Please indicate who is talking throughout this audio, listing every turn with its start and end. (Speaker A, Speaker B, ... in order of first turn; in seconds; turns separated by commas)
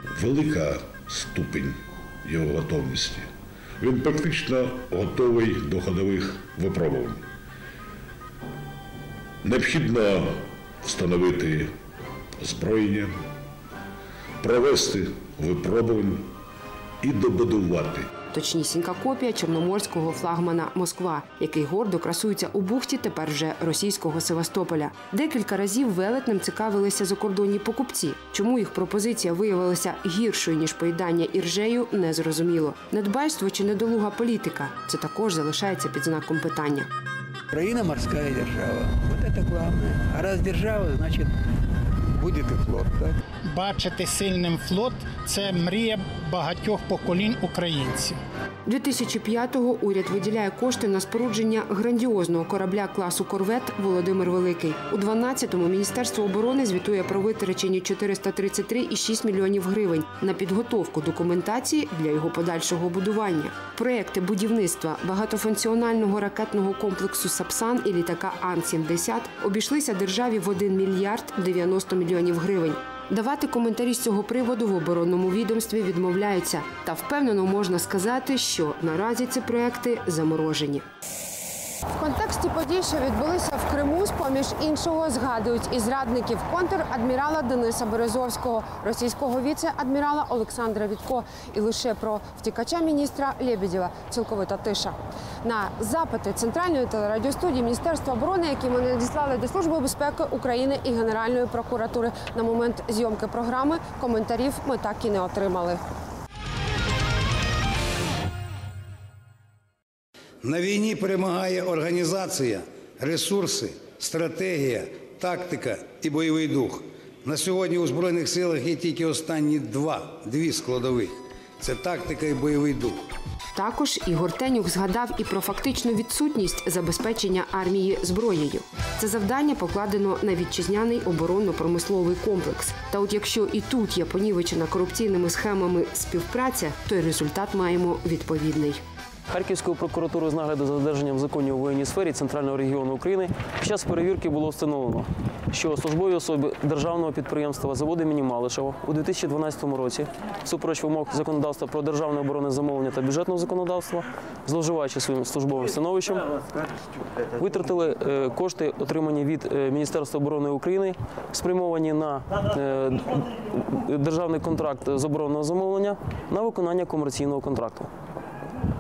Speaker A: 0.2-7.2, Speaker A: 9.4-11.7, Speaker A: 12.4-13.2, Speaker A: 14.4-16.3, Speaker A: 17.0-18.1, Speaker B: 18.3-36.9, Speaker C: 37.9-41.3, Speaker C: 42.2-43.1, Speaker D: 43.5-48.2, Speaker B: 48.6-80.8, Speaker B: 81.9-105.8, Speaker E: 110.4-123.0, Speaker B: 123.5-138.8, Speaker F: 139.3-156.3, Speaker F: 157.3-167.9